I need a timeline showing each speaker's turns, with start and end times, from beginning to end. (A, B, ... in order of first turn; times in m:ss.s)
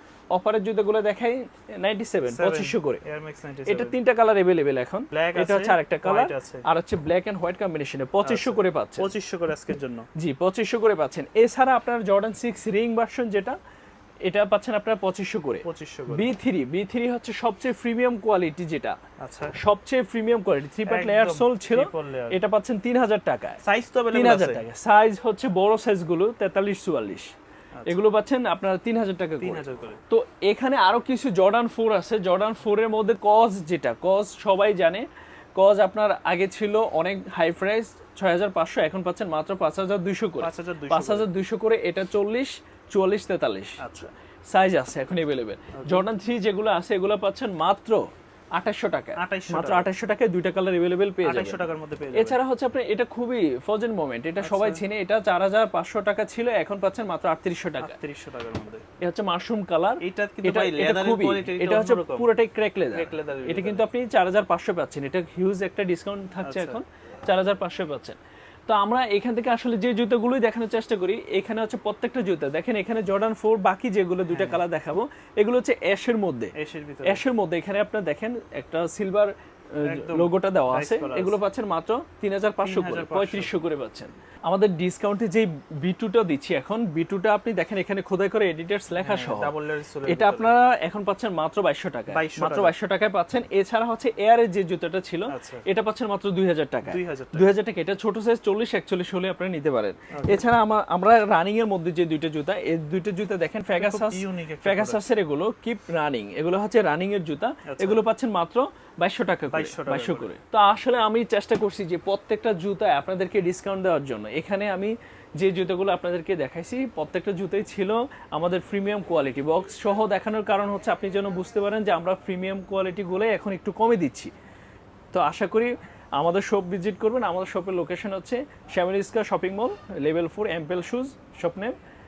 0:00.3-0:03.0 A
0:02.3-0:04.0 B
0:03.7-0:09.1 A
0:05.1-0:06.6 B
0:08.2-0:10.1 B
0:10.2-0:13.6 A
0:14.2-0:19.0 A
0:15.6-0:16.3 B
0:19.2-0:19.6 B
0:19.6-0:23.6 A
0:20.9-0:22.4 B
0:23.6-0:24.6 B
0:24.1-0:27.3 A
0:27.9-0:35.1 A
0:29.4-0:30.0 B
0:35.6-0:43.8 A
0:40.4-0:41.3 B
0:43.8-0:44.1 B
0:44.5-0:51.6 A
0:45.8-0:46.1 B
0:49.2-0:49.9 B
0:51.2-0:52.4 B
0:52.1-0:58.0 A
0:54.4-0:54.8 B
0:57.8-0:58.8 B
0:59.0-1:16.5 A
1:00.0-1:02.3 B
1:02.9-1:03.9 B
1:06.4-1:06.8 B
1:14.3-1:14.6 B
1:16.6-1:17.2 B
1:17.0-1:29.5 A
1:19.8-1:21.4 B
1:22.6-1:23.5 B
1:29.0-1:30.5 B
1:30.1-2:04.3 A
1:32.1-1:32.7 B
1:35.3-1:35.7 B
1:36.9-1:37.5 B
1:40.1-1:40.4 B
1:43.8-1:45.0 B
1:47.7-1:48.0 B
1:49.5-1:50.3 B
2:05.1-2:11.8 A